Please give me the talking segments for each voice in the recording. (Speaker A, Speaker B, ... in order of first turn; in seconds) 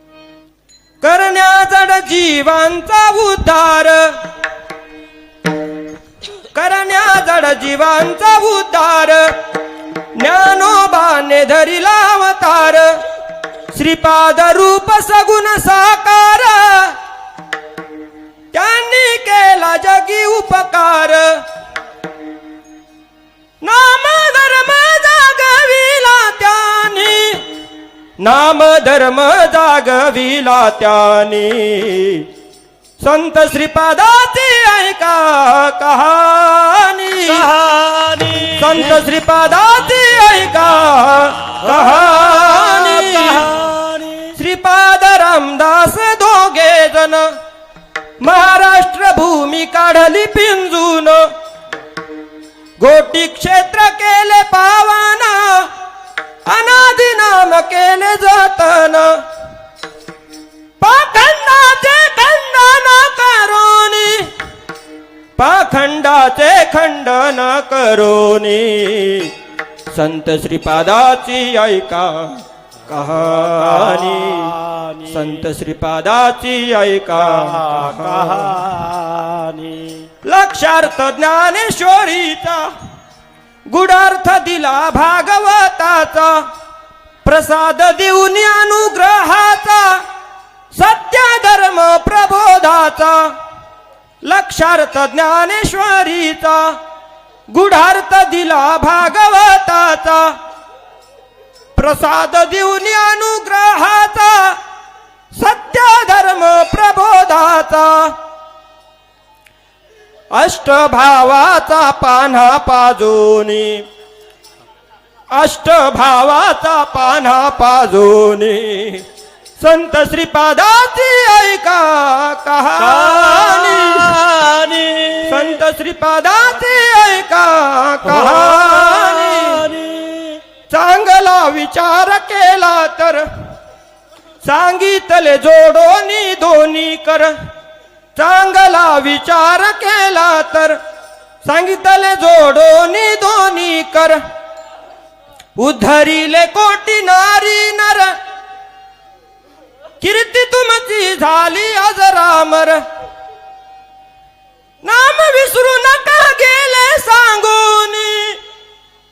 Speaker A: 1.0-4.2, 6.5-9.4, 10.2-13.0, 13.7-17.0, 18.5-21.4, 23.6-27.4, 28.2-32.3, 33.0-37.5, 38.5-43.5, 44.4-47.3, 48.2-51.3, 52.8-55.7, 56.5-59.2, 60.8-64.3, 65.4-69.3, 69.9-78.6, 80.2-82.7, 83.7-86.5, 87.2-90.0, 90.7-93.3, 94.2-96.8, 97.5-100.3, 101.8-104.6, 105.3-108.2, 110.3-113.9, 115.3-119.1, 119.6-124.1, 125.2-129.7, 130.7-133.3, 134.4-137.3, 138.2-140.8, 141.4-144.2, 145.6-148.2, 150.0-152.8, 154.8-158.4
Speaker B: 37.3-38.9, 41.6-44.3, 73.2-75.3, 77.2-80.1, 122.8-125.5, 128.1-130.4